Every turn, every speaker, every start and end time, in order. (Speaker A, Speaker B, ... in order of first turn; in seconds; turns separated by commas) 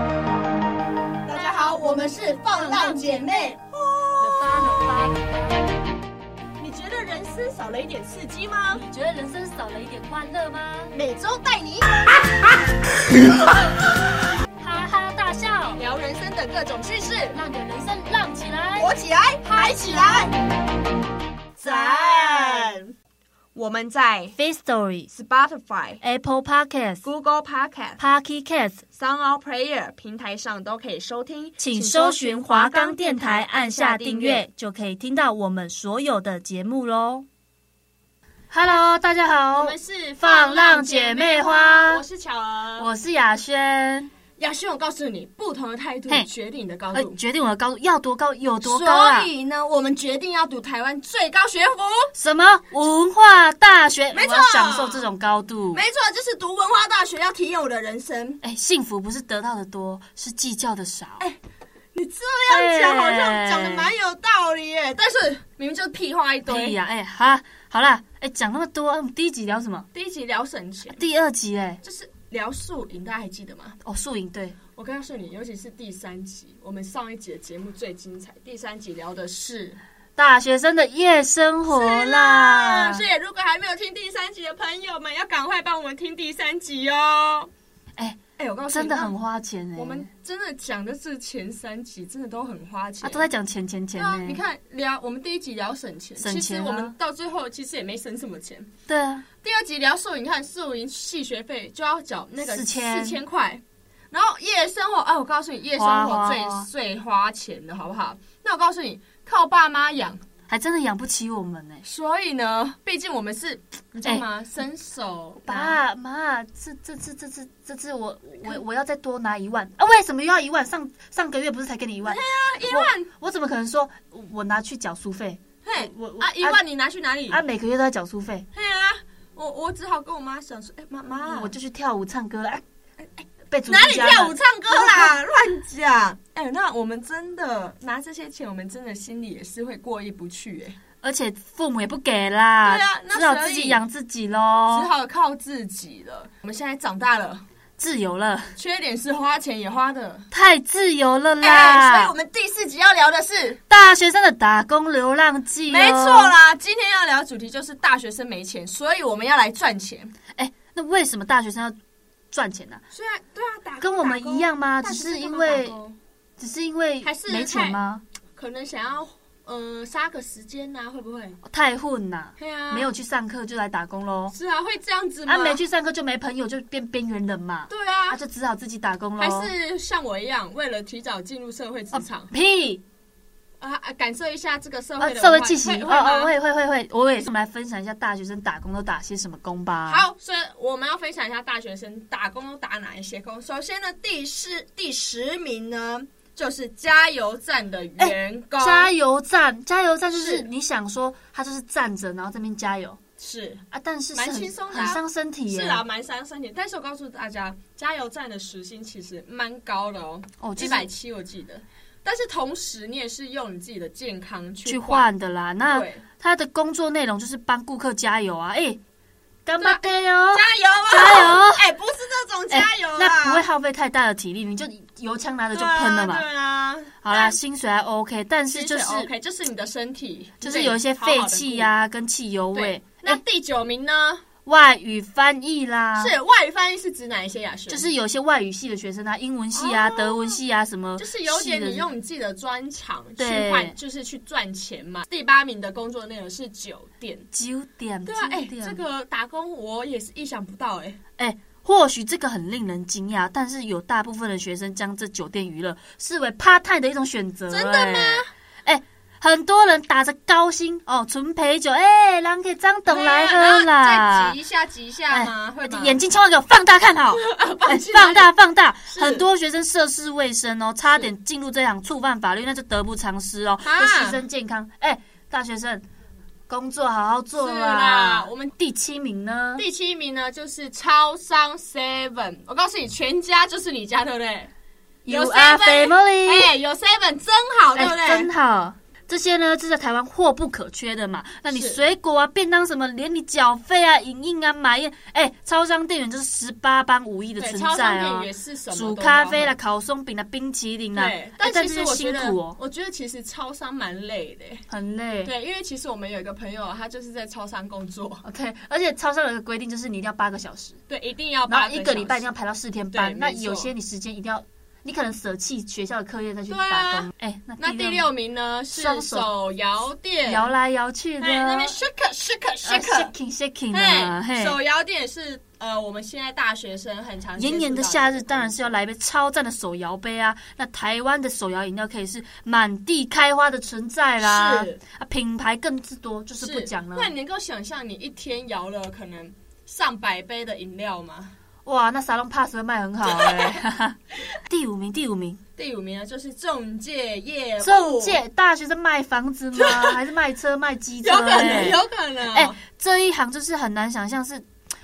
Speaker A: 1.3-4.5, Speaker B: 1.4-1.8, Speaker B: 2.4-3.3, Speaker B: 4.2-5.2, Speaker A: 6.6-8.8, Speaker B: 8.7-10.9, Speaker A: 10.9-12.0, Speaker B: 14.6-15.8, Speaker A: 15.8-17.4, Speaker B: 17.3-18.9, Speaker A: 18.8-20.3, Speaker B: 19.5-20.3, Speaker A: 21.6-22.9, Speaker B: 21.6-22.7, Speaker A: 23.5-24.4, Speaker B: 24.4-25.1, Speaker A: 25.1-26.0, Speaker B: 26.0-27.1, Speaker A: 27.0-28.0, Speaker B: 28.0-28.8, Speaker A: 28.9-34.4, Speaker B: 31.6-37.2, Speaker B: 38.5-42.0, Speaker A: 39.5-42.9, Speaker B: 42.8-44.1, Speaker A: 44.4-47.2, Speaker B: 46.9-49.3, Speaker A: 48.6-52.1, Speaker B: 52.1-55.8, Speaker A: 54.1-55.0, Speaker A: 55.7-58.4, Speaker B: 58.4-61.2, Speaker A: 61.9-66.8, Speaker B: 62.5-63.9, Speaker B: 66.5-69.9, Speaker A: 69.9-71.0, Speaker B: 70.9-71.8, Speaker A: 71.8-73.8, Speaker B: 73.8-74.6, Speaker A: 74.7-79.8, Speaker B: 80.2-83.0, Speaker A: 81.7-87.5, Speaker B: 88.0-90.1, Speaker A: 88.4-89.2, Speaker A: 89.8-93.3, Speaker B: 93.0-94.4, Speaker A: 94.0-98.7, Speaker B: 96.2-96.9, Speaker B: 98.9-99.2, Speaker A: 99.4-110.2, Speaker B: 102.4-103.2, Speaker B: 105.7-106.7, Speaker B: 110.5-111.8, Speaker A: 111.8-115.8, Speaker B: 115.4-126.6, Speaker A: 122.0-123.1, Speaker A: 125.6-127.4, Speaker B: 127.3-128.5, Speaker A: 128.5-131.5, Speaker B: 131.2-132.6, Speaker A: 133.2-140.8, Speaker B: 133.5-135.2, Speaker B: 141.0-144.9, Speaker A: 142.6-143.8, Speaker A: 144.7-147.4, Speaker B: 147.8-148.5, Speaker A: 148.6-150.3, Speaker B: 150.3-152.1, Speaker A: 151.4-153.6, Speaker B: 153.7-156.4, Speaker A: 155.7-160.1, Speaker B: 160.3-161.8, Speaker B: 162.3-162.8, Speaker A: 162.9-166.0, Speaker B: 163.8-165.8, Speaker B: 166.4-168.0, Speaker A: 167.0-167.8, Speaker A: 168.3-171.4, Speaker B: 171.4-174.3, Speaker A: 172.4-172.9, Speaker A: 174.3-175.6, Speaker B: 175.2-179.5, Speaker A: 177.7-178.2, Speaker A: 179.2-182.3, Speaker B: 181.9-182.8, Speaker A: 183.6-186.3, Speaker B: 185.0-190.1, Speaker A: 189.9-198.9, Speaker B: 198.0-203.0, Speaker A: 200.1-200.4, Speaker A: 203.2-215.0, Speaker B: 203.7-205.8, Speaker B: 210.4-210.9, Speaker B: 214.6-218.8, Speaker A: 215.7-216.0, Speaker B: 219.4-221.6, Speaker A: 219.6-223.4, Speaker B: 222.5-226.2, Speaker A: 225.5-227.4, Speaker B: 227.0-229.1, Speaker A: 228.5-231.7, Speaker B: 230.4-233.2, Speaker A: 232.5-234.2, Speaker B: 234.4-236.2, Speaker A: 236.0-237.9, Speaker B: 237.7-241.9, Speaker A: 239.5-240.4, Speaker A: 241.0-247.3, Speaker B: 243.2-243.8, Speaker B: 247.3-248.8, Speaker A: 248.1-251.0, Speaker B: 251.2-264.4, Speaker A: 257.5-258.3, Speaker A: 262.9-266.0, Speaker B: 265.1-275.8, Speaker A: 267.1-268.3, Speaker A: 268.9-269.2, Speaker A: 273.6-274.2, Speaker B: 276.5-279.6, Speaker A: 277.4-278.5, Speaker A: 279.6-284.5, Speaker B: 285.0-286.5, Speaker A: 285.1-288.3, Speaker B: 287.7-302.6, Speaker A: 291.5-291.8, Speaker A: 297.4-299.5, Speaker A: 300.9-304.6, Speaker B: 304.7-305.3, Speaker A: 305.2-308.2, Speaker B: 308.2-310.8, Speaker A: 310.9-312.3, Speaker B: 311.5-318.1, Speaker A: 312.9-313.7, Speaker A: 316.5-317.1, Speaker A: 317.6-320.5, Speaker B: 318.7-319.3, Speaker B: 320.2-321.8, Speaker A: 321.2-323.1, Speaker B: 322.6-324.6, Speaker A: 323.7-328.7, Speaker B: 327.4-337.1, Speaker A: 334.2-334.8, Speaker A: 336.4-341.3, Speaker B: 341.6-345.4, Speaker A: 343.0-343.6, Speaker A: 345.6-348.2, Speaker B: 347.6-354.4, Speaker A: 349.5-350.0, Speaker A: 351.0-352.6